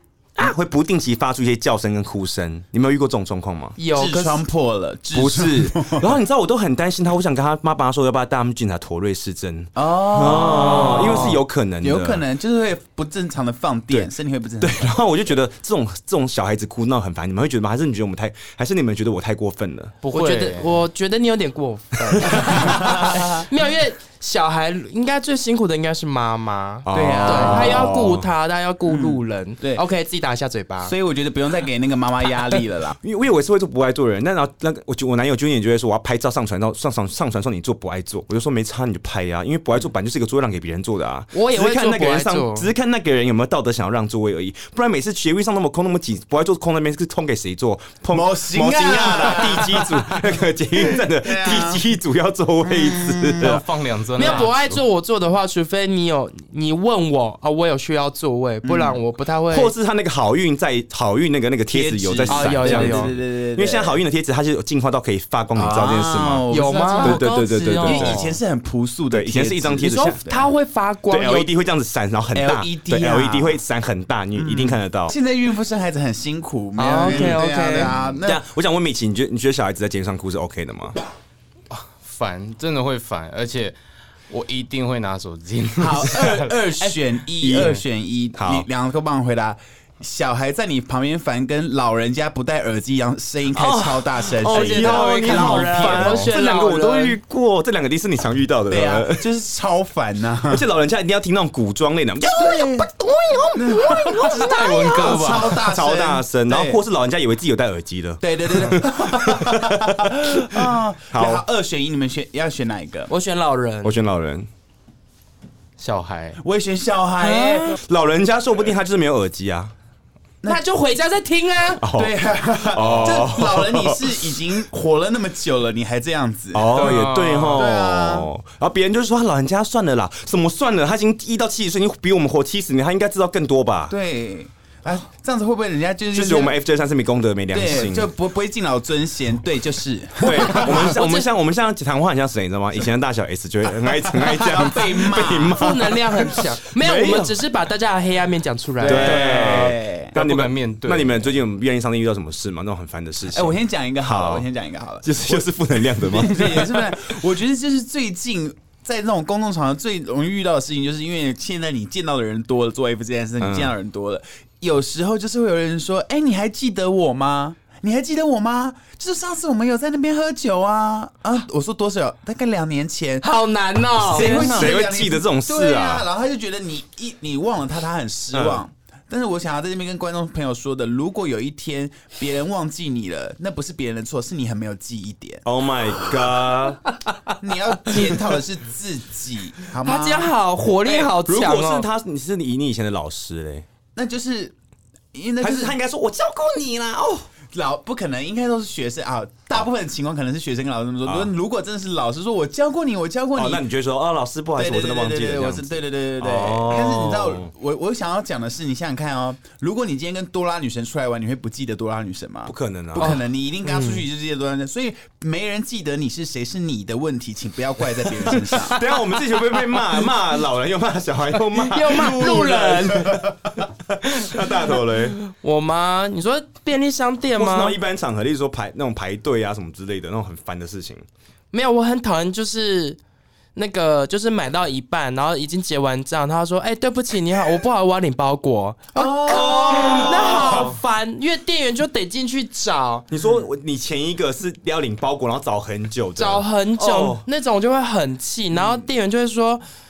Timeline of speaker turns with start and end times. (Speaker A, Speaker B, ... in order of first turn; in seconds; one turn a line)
Speaker A: 0.4-3.8
Speaker B: 3.8-4.4
Speaker C: 3.9-6.1
Speaker A: 5.1-12.2
Speaker C: 9.7-14.9
Speaker D: 10.6-11.0
Speaker A: 14.6-19.9
Speaker D: 20.0-20.9
Speaker B: 20.1-30.9
Speaker C: 22.3-23.4
Speaker A: 26.8-28.3
Speaker C: 26.9-27.9
Speaker C: 28.8-29.8
Speaker C: 30.8-33.0
Speaker A: 33.0-53.6
Speaker B: 41.3-42.7
Speaker C: 48.1-50.2
Speaker C: 50.8-51.8
Speaker C: 52.6-53.6
Speaker D: 53.4-54.7
Speaker B: 54.1-59.7
Speaker A: 54.2-54.5
Speaker C: 58.6-59.0
Speaker A: 59.5-66.5
Speaker C: 61.7-64.0
Speaker B: 62.3-63.1
Speaker C: 65.5-67.2
Speaker B: 66.5-67.2
Speaker D: 67.0-68.4
Speaker A: 67.0-68.2
Speaker C: 67.8-70.5
Speaker A: 69.1-70.2
Speaker B: 69.8-71.5
Speaker A: 71.1-75.1
Speaker C: 72.3-73.6
Speaker C: 74.3-78.4
Speaker B: 76.8-77.9
Speaker A: 77.0-77.4
Speaker A: 78.2-81.0
Speaker D: 81.7-83.8
Speaker D: 84.3-86.7
Speaker C: 85.8-96.2
Speaker A: 87.4-87.8
Speaker A: 88.3-88.7
Speaker A: 93.5-99.2
Speaker B: 94.5-97.2
Speaker D: 94.7-96.3
Speaker C: 98.7-100.6
Speaker A: 100.5-102.3
Speaker B: 102.3-105.2
Speaker C: 102.3-102.9
Speaker C: 103.5-106.8
Speaker D: 104.2-105.6
Speaker A: 105.5-111.4
Speaker C: 108.2-113.1
Speaker B: 113.1-114.0
Speaker A: 113.8-114.5
Speaker D: 115.8-116.4
Speaker C: 116.4-117.8
Speaker D: 117.2-117.6
Speaker A: 117.8-119.7
Speaker B: 120.4-121.8
Speaker A: 121.8-124.3
Speaker C: 121.9-126.9
Speaker A: 126.5-133.9
Speaker D: 126.7-127.6
Speaker C: 127.5-128.3
Speaker C: 133.9-136.6
Speaker A: 136.1-138.1
Speaker C: 137.5-140.9
Speaker A: 140.2-147.4
Speaker B: 140.5-141.3
Speaker C: 143.8-146.0
Speaker B: 145.5-149.2
Speaker C: 148.8-150.1
Speaker D: 148.8-151.3
Speaker A: 148.8-154.5
Speaker C: 153.3-173.3
Speaker A: 155.0-156.9
Speaker A: 163.4-163.7
Speaker B: 173.2-174.7
Speaker C: 174.0-185.4
Speaker A: 174.1-176.1
Speaker A: 178.3-178.6
Speaker A: 185.4-186.8
Speaker C: 187.4-190.3
Speaker B: 187.8-188.2
Speaker B: 189.8-191.9
Speaker A: 190.8-193.6
Speaker C: 193.9-194.5
Speaker C: 195.1-195.7
Speaker A: 195.4-197.3
Speaker C: 197.5-203.6
Speaker A: 201.0-201.3
Speaker A: 203.3-207.5
Speaker C: 204.6-218.8
Speaker A: 212.4-213.1
Speaker B: 213.0-214.0
Speaker A: 218.4-225.2
Speaker B: 221.5-223.2
Speaker C: 221.9-223.5
Speaker B: 224.7-227.8
Speaker A: 227.4-231.0
Speaker B: 231.5-233.0
Speaker B: 233.5-243.1
Speaker C: 238.9-240.7
Speaker A: 239.2-240.8
Speaker A: 243.1-247.2
Speaker C: 243.1-243.4
Speaker B: 246.2-249.6
Speaker C: 248.5-248.8